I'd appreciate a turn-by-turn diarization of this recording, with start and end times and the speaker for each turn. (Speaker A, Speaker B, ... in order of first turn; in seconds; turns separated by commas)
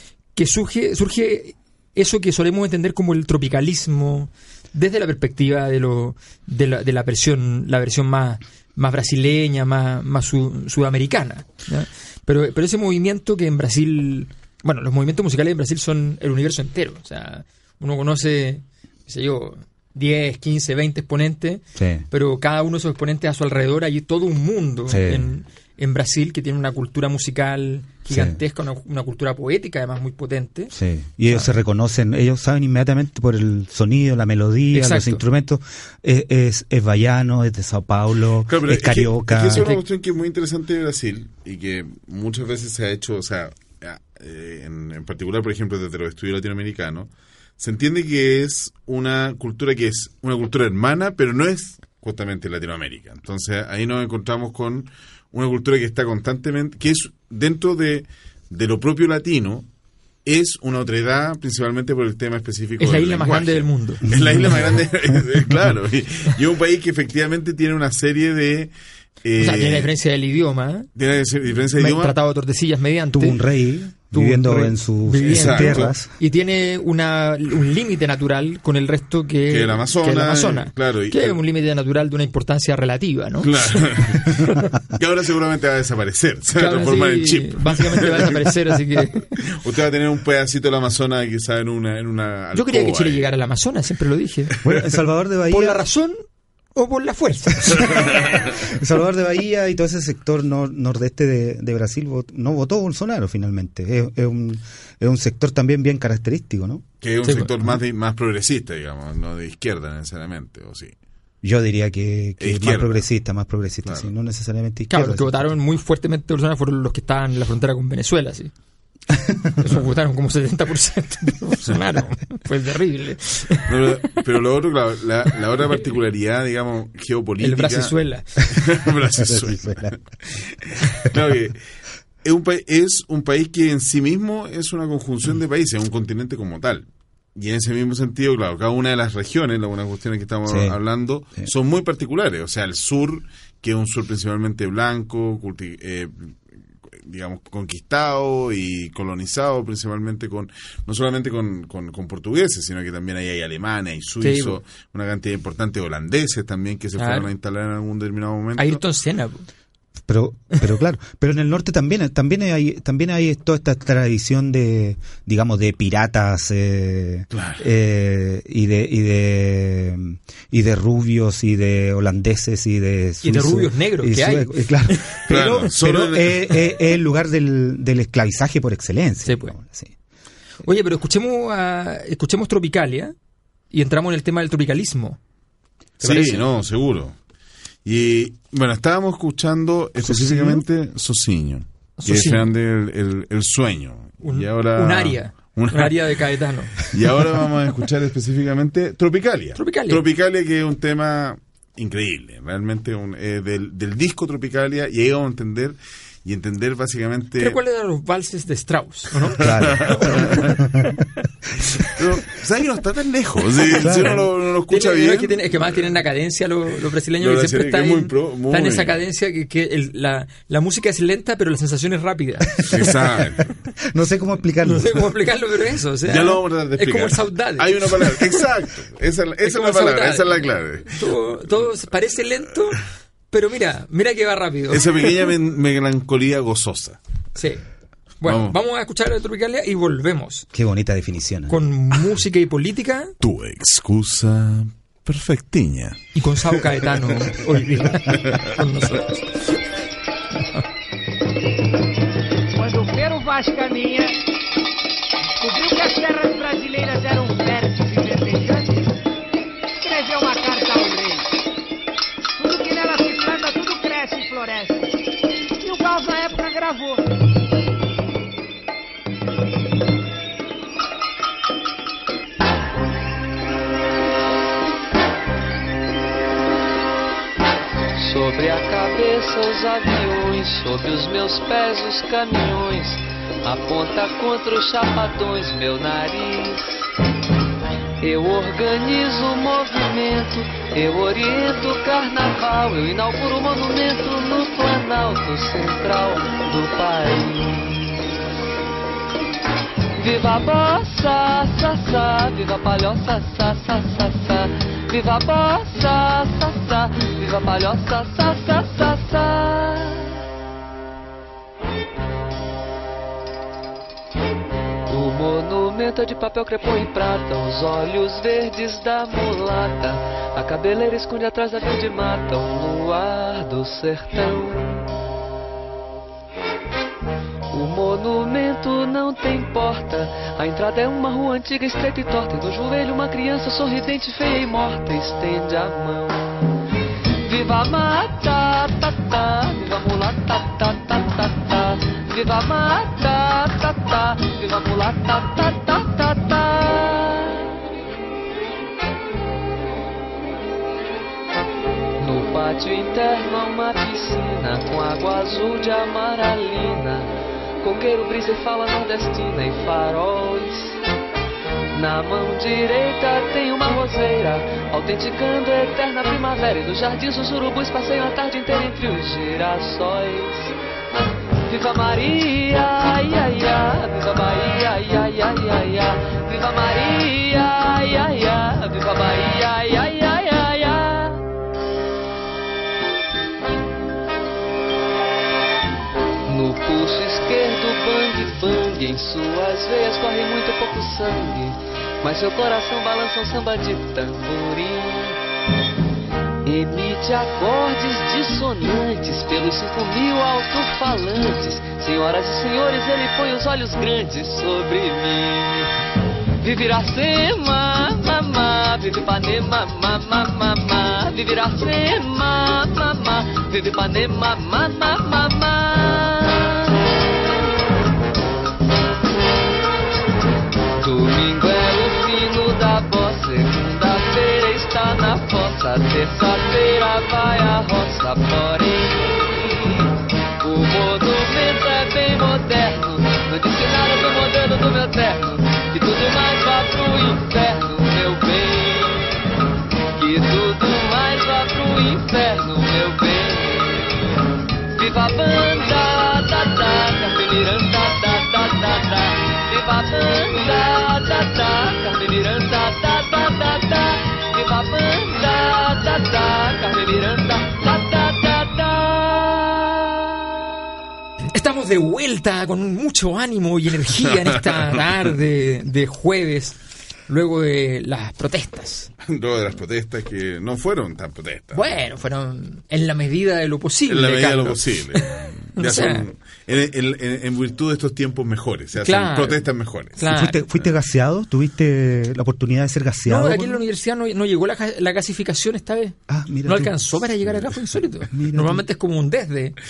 Speaker A: 0.3-30.7, Speaker B: 21.7-22.0, Speaker B: 24.9-25.3, Speaker B: 28.1-28.4, Speaker B: 30.7-39.8, Speaker A: 34.7-35.2, Speaker C: 38.5-59.6, Speaker C: 60.2-68.7, Speaker A: 62.8-64.6, Speaker B: 64.1-65.2, Speaker C: 69.2-69.9, Speaker A: 69.4-70.9, Speaker C: 70.9-72.1, Speaker A: 71.8-73.4, Speaker B: 73.1-76.1, Speaker A: 74.1-84.7, Speaker C: 75.2-75.9, Speaker C: 79.5-81.4, Speaker C: 83.4-88.5, Speaker A: 86.5-89.3, Speaker C: 89.4-93.3, Speaker A: 92.5-94.6, Speaker B: 94.6-95.8, Speaker A: 95.5-96.1, Speaker A: 96.7-98.2, Speaker B: 97.7-106.8, Speaker C: 107.0-110.9, Speaker A: 107.2-107.5, Speaker B: 111.4-115.5, Speaker C: 112.4-113.0, Speaker C: 113.8-114.1, Speaker A: 114.9-118.5, Speaker A: 119.6-123.9, Speaker C: 123.7-127.9, Speaker A: 127.4-128.4, Speaker C: 128.4-131.6, Speaker B: 129.2-129.9, Speaker C: 132.2-146.3, Speaker B: 140.4-140.8, Speaker C: 146.9-158.8, Speaker A: 154.2-154.6, Speaker A: 157.0-157.3, Speaker A: 158.6-159.5, Speaker B: 160.1-179.9, Speaker C: 167.3-167.6, Speaker A: 173.2-175.2, Speaker C: 175.3-176.5, Speaker A: 179.2-179.5, Speaker A: 180.6-183.1, Speaker A: 183.7-185.2, Speaker A: 186.0-186.4, Speaker C: 186.0-187.2, Speaker C: 187.8-195.9, Speaker A: 190.0-190.6, Speaker A: 192.0-192.5, Speaker A: 194.2-196.8, Speaker C: 196.8-207.6, Speaker A: 199.6-200.0, Speaker A: 207.4-210.6, Speaker B: 209.4-210.9, Speaker C: 209.4-210.6, Speaker C: 211.9-215.9, Speaker B: 213.8-214.2, Speaker A: 214.7-222.9, Speaker C: 217.2-219.0, Speaker C: 222.7-223.5, Speaker B: 223.9-225.1, Speaker A: 224.6-228.5, Speaker C: 226.1-231.1, Speaker A: 229.4-235.2, Speaker C: 234.7-237.0, Speaker A: 237.3-237.6, Speaker A: 238.2-240.5, Speaker C: 238.2-238.6, Speaker B: 240.5-241.6, Speaker A: 241.5-243.1, Speaker C: 243.2-246.8, Speaker A: 246.1-249.6, Speaker D: 252.5-254.2, Speaker D: 255.4-258.9, Speaker D: 259.8-261.3, Speaker D: 262.4-264.8, Speaker D: 265.6-267.0, Speaker E: 277.9-286.9, Speaker E: 288.0-298.0, Speaker E: 300.0-310.2, Speaker E: 314.9-324.8, Speaker E: 327.5-336.3, Speaker E: 337.2-347.5, Speaker E: 352.0-357.1, Speaker E: 357.6-360.8, Speaker E: 361.7-370.6, Speaker E: 371.4-381.2, Speaker E: 386.3-395.2, Speaker E: 396.4-405.7, Speaker E: 406.4-416.7, Speaker E: 420.8-429.9, Speaker E: 430.4-439.2, Speaker E: 439.9-444.0, Speaker E: 444.7-460.1, Speaker A: 461.3-466.6, Speaker A: 467.1-468.9, Speaker C: 469.0-471.8, Speaker A: 471.5-475.0, Speaker C: 473.9-480.7, Speaker A: 475.6-476.0, Speaker A: 478.8-480.4, Speaker B: 480.0-483.6, Speaker A: 483.1-489.6, Speaker B: 486.1-487.4, Speaker B: 488.1-488.6